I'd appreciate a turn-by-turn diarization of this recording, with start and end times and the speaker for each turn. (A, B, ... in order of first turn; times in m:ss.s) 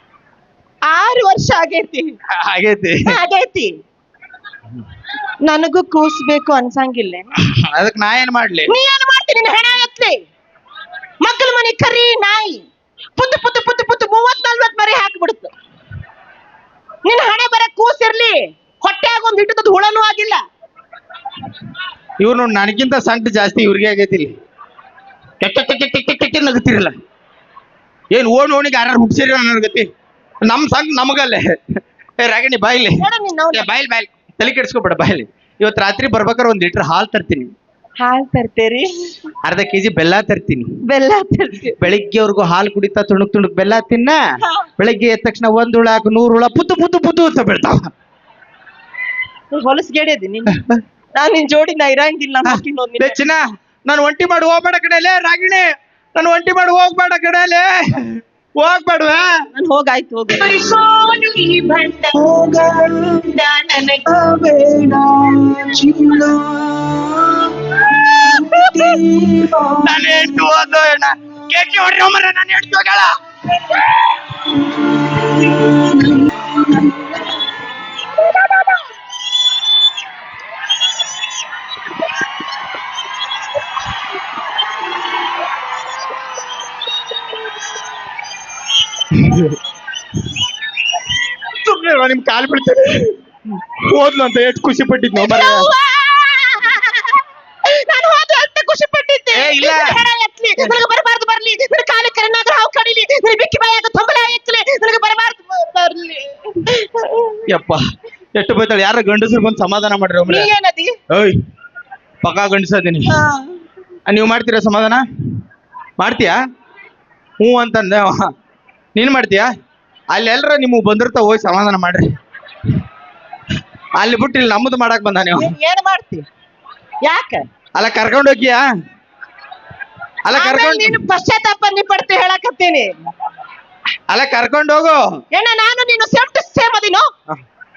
0:00.9-0:02.1 A
0:02.4-0:03.0 B
0:03.0-0:03.7 A
0:05.4-0:07.3 A
0:07.7-0:08.7 B
0:08.7-0:10.2 A
0:11.2-0:12.6 A
0:13.2-0:15.5 A
0:17.0-0:20.4 A
0:22.2-0:24.3 B
0:25.4-0:26.9 B
0:28.1-0:29.9 B
0:30.4-0:31.5 B
0:32.2-0:33.0 B
0:33.0-0:33.6 A
0:33.5-0:37.5 B
0:38.0-0:39.1 A
0:39.4-0:40.6 B
0:40.8-0:41.8 A
0:41.8-0:44.2 B
0:44.8-0:47.8 B
0:49.5-0:50.6 A
0:51.1-0:53.2 A
0:52.5-0:57.7 B
0:58.6-0:59.3 B
0:59.5-1:00.6 A
1:00.4-1:10.2 C
1:08.1-1:09.0 A
1:09.8-1:13.1 B
1:14.7-1:17.1 C
1:29.1-1:29.5 B
1:31.5-1:33.1 B
1:33.8-1:35.6 B
1:35.1-1:47.4 A
1:39.3-1:40.0 B
1:47.5-1:47.8 B
1:48.3-1:50.5 B
1:50.3-1:51.0 A
1:51.1-1:51.4 B
1:52.2-1:53.1 B
1:53.1-1:53.5 A
1:54.1-1:55.0 B
1:56.0-1:56.4 B
1:57.4-1:58.2 B
1:58.9-1:59.5 B
2:00.1-2:02.0 B
2:04.0-2:05.5 B
2:05.4-2:06.2 A
2:07.0-2:07.4 A
2:07.7-2:08.6 B
2:10.2-2:10.9 B
2:10.3-2:12.9 A
2:14.1-2:15.0 B
2:15.3-2:17.1 A